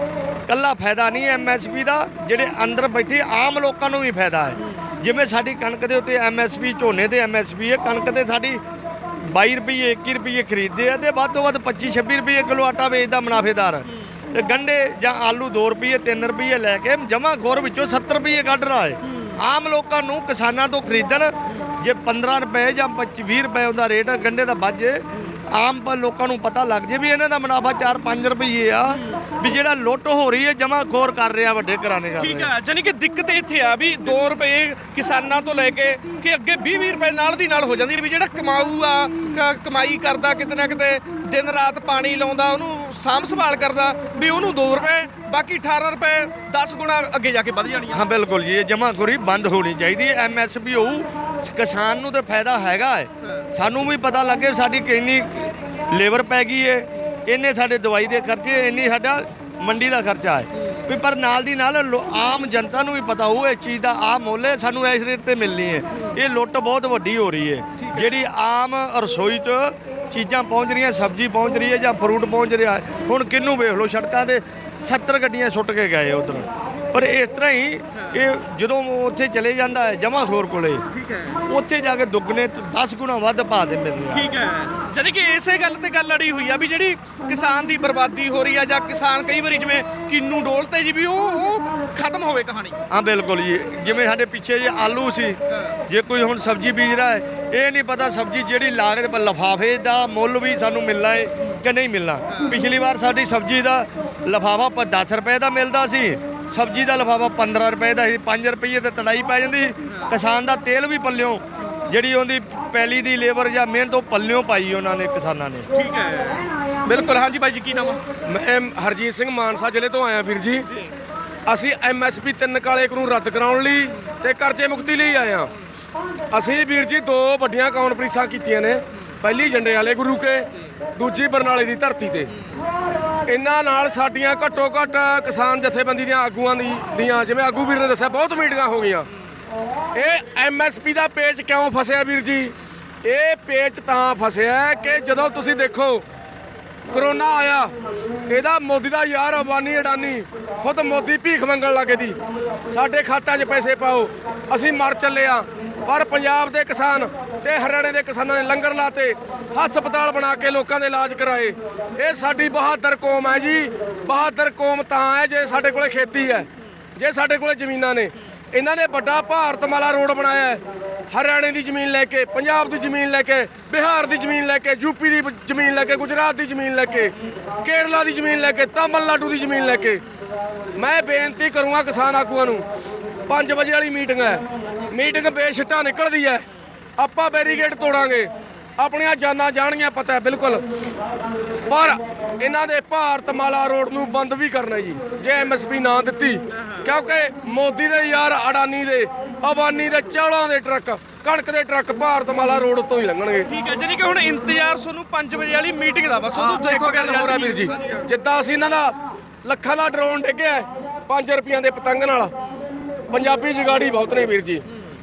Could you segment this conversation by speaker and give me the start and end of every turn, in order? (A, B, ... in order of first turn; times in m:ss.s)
0:00.5-0:08.6 A
0:09.3-0:25.0 A
0:19.1-0:19.4 B
0:25.5-0:32.5 A
0:32.2-0:48.0 B
0:47.9-1:20.8 A
1:07.8-1:08.2 B
1:20.9-1:21.4 B
1:21.5-1:24.3 A
1:24.1-1:32.8 B
1:32.9-1:35.4 A
1:35.9-1:55.7 A
1:42.3-1:42.6 B
1:55.7-1:58.0 B
1:58.2-2:00.7 C
2:01.5-2:05.5 C
2:06.3-2:12.3 C
2:13.2-2:19.1 C
2:19.9-2:26.0 C
2:26.9-2:27.7 C
2:28.3-2:50.6 C
2:51.1-2:57.1 C
2:57.6-3:00.0 C
3:00.8-3:02.6 C
3:03.3-3:06.4 C
3:07.0-3:10.6 C
3:11.7-3:23.5 C
3:23.5-3:28.1 B
3:26.4-3:28.9 C
3:29.4-3:32.3 C
3:33.1-3:34.6 C